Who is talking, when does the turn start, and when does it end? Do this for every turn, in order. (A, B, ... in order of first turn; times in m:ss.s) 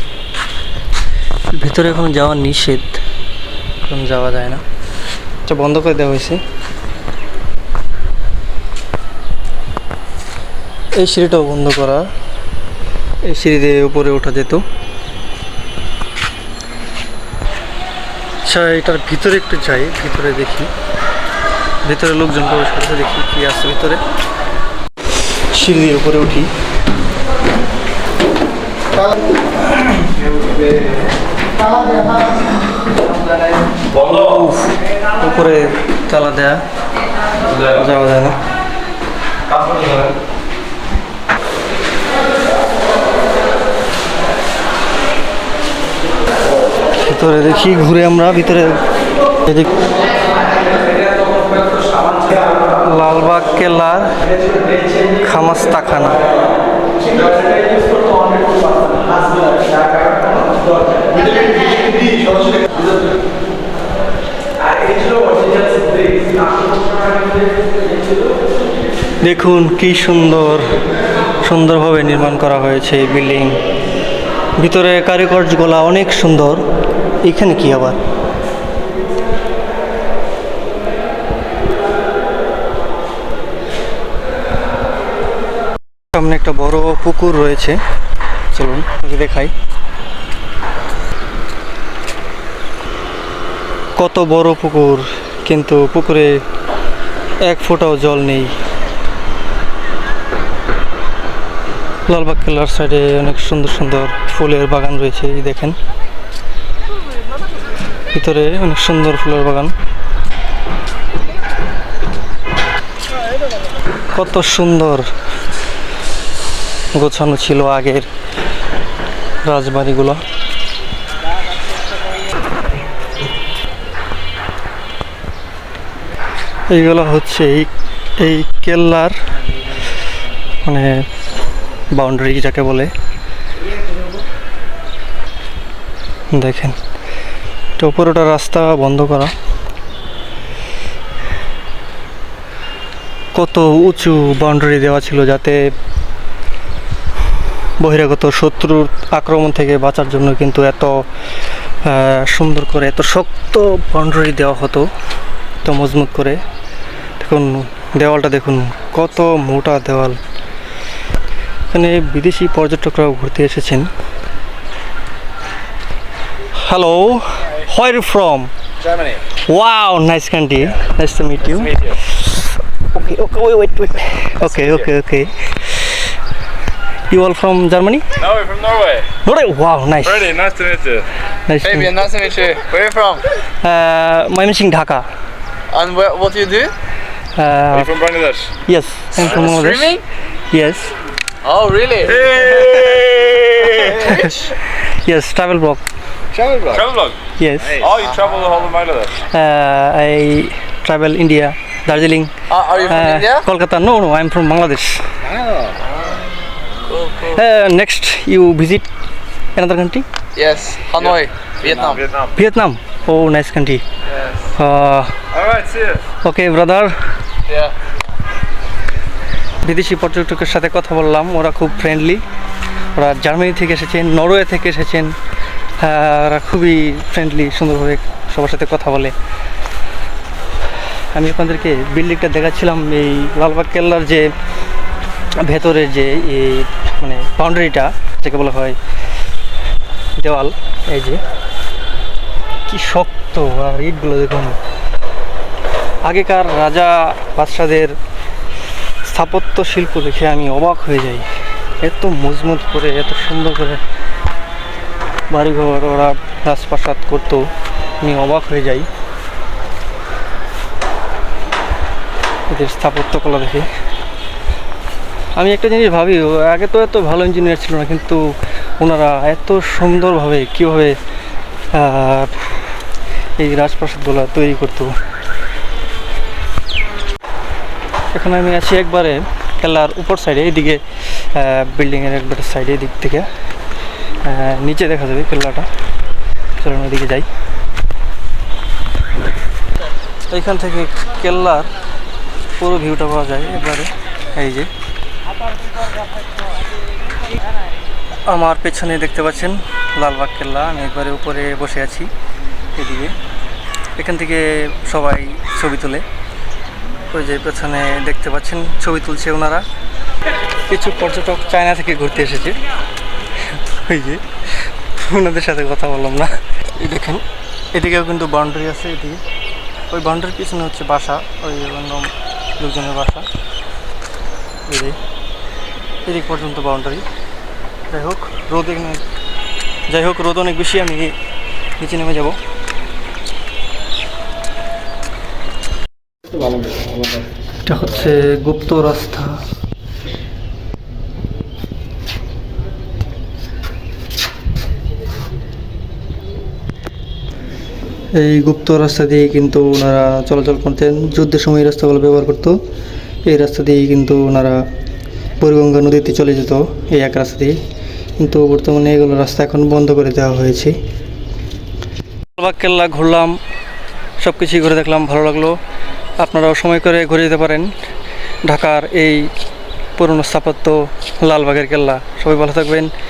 0:01.5-0:03.0 A
0:03.9-0:04.6 A
0:05.5-0:06.4 A
0:11.0-0:12.1 A
0:13.2-0:14.6 A
0:18.4-0:20.7 A
0:21.8-0:24.0 A
0:25.5-0:26.5 A
0:33.9-0:36.6 A
0:37.6-0:38.4 A
0:47.0-0:48.8 A
0:49.4-0:49.8 A
0:51.7-0:52.4 B
0:52.6-0:56.3 A
0:57.2-0:59.7 B
1:09.2-1:10.8 A
1:11.4-1:13.6 A
1:14.6-1:16.6 A
1:17.2-1:18.0 A
1:26.1-1:27.8 A
1:28.5-1:29.5 A
1:34.0-1:36.4 A
1:37.4-1:38.5 A
1:42.1-1:45.8 A
1:48.1-1:49.7 A
1:54.1-1:55.1 A
1:57.0-1:58.1 A
1:59.4-2:00.2 A
2:06.7-2:09.2 A
2:10.6-2:11.0 A
2:12.0-2:12.9 A
2:16.3-2:16.8 A
2:17.8-2:19.4 A
2:23.3-2:25.7 A
2:27.8-2:31.1 A
2:31.8-2:34.9 A
2:35.6-2:36.4 A
2:37.2-2:40.2 A
2:41.7-2:43.9 A
2:46.5-2:48.5 A
2:49.5-2:56.1 A
2:57.1-2:58.1 A
2:58.2-2:59.0 C
2:59.2-3:00.4 A
3:00.2-3:01.0 C
3:01.5-3:01.9 A
3:01.6-3:03.3 B
3:03.6-3:05.1 A
3:05.7-3:06.7 B
3:07.4-3:08.0 A
3:07.9-3:08.5 C
3:08.7-3:10.0 A
3:09.1-3:10.0 B
3:10.5-3:11.0 A
3:11.4-3:12.9 B
3:12.3-3:13.0 C
3:12.8-3:15.8 A
3:13.8-3:14.5 B
3:16.4-3:16.7 B
3:16.4-3:17.2 C
3:17.4-3:17.8 A
3:17.8-3:19.1 C
3:17.8-3:18.2 B
3:19.2-3:25.2 A
3:22.5-3:23.4 B
3:26.8-3:27.4 B
3:27.3-3:28.9 A
3:29.6-3:30.1 A
3:30.4-3:32.1 B
3:32.3-3:33.8 A
3:34.6-3:35.2 A
3:35.5-3:36.0 C
3:36.2-3:37.0 A
3:37.5-3:37.8 B
3:39.6-3:42.2 A
3:42.9-3:45.1 A
3:45.8-3:49.2 A
3:51.1-3:54.3 A
3:55.4-3:58.8 A
4:00.2-4:01.2 A
4:02.7-4:04.6 A
4:06.0-4:08.0 A
4:09.0-4:11.3 A
4:11.8-4:13.8 A
4:15.3-4:17.5 A
4:18.0-4:18.9 A
4:22.5-4:23.7 A
4:25.4-4:28.2 A
4:28.8-4:31.0 A
4:31.7-4:32.8 A
4:33.4-4:35.0 A
4:38.1-4:43.3 A
4:44.2-4:45.7 A
4:46.6-4:47.3 A
4:50.3-4:51.7 A
4:52.6-4:54.7 A
4:58.3-5:02.1 A
5:02.8-5:03.2 A
5:04.0-5:06.0 A
5:07.1-5:09.7 A
5:10.7-5:12.6 A
5:13.6-5:19.2 A
5:19.9-5:23.3 A
5:24.7-5:25.0 A
5:26.0-5:27.0 A
5:27.9-5:29.0 A
5:29.9-5:31.2 A
5:31.8-5:32.4 A
5:37.6-5:39.4 A
5:48.1-5:52.6 A
5:53.2-5:54.6 A
5:55.4-5:57.6 A
5:58.2-6:00.8 A
6:02.4-6:03.4 A
6:04.2-6:05.6 A
6:06.2-6:07.7 A
6:08.4-6:09.3 A
6:10.0-6:12.9 A